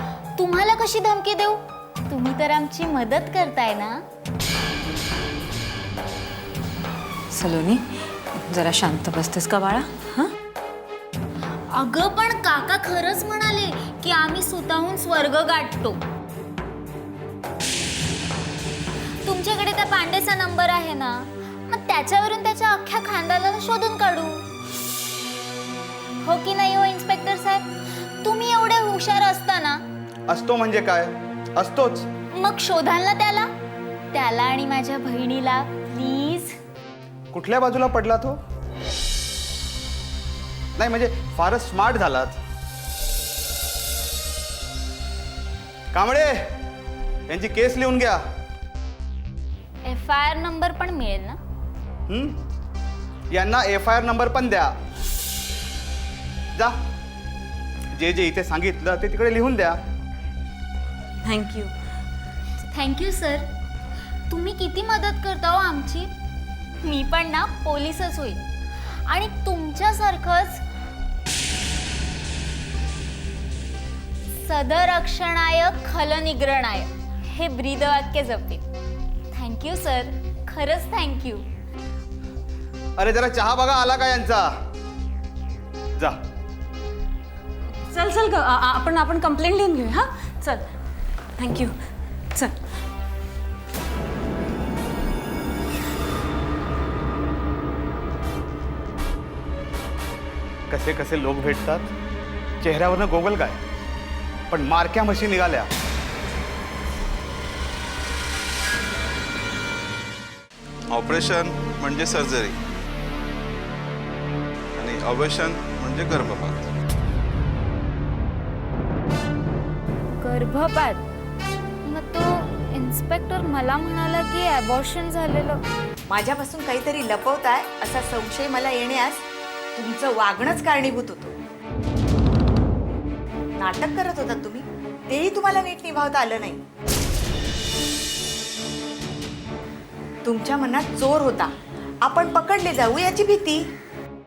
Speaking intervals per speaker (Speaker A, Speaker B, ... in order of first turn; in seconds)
Speaker A: 0.4-4.0, 11.7-16.0, 19.2-24.5, 26.2-29.8, 32.3-33.5, 34.1-36.6, 49.9-51.4, 62.7-63.5, 64.3-66.1, 66.8-68.4, 69.0-70.6, 74.3-78.6, 79.3-81.4, 120.1-121.0, 121.8-125.6
Speaker B: 7.3-10.3, 61.2-61.7, 87.9-90.6, 91.4-91.7
Speaker C: 30.3-32.1, 37.3-38.4, 40.8-42.4, 45.9-46.6, 47.3-48.2, 52.1-52.4, 53.3-54.7, 57.9-59.8, 83.0-84.5, 86.0-86.2, 100.7-101.9, 102.6-103.6, 104.5-105.7
Speaker D: 110.9-112.6, 114.8-116.7
Speaker E: 126.1-129.2, 129.8-131.3, 133.6-136.6, 140.2-141.5, 142.0-143.6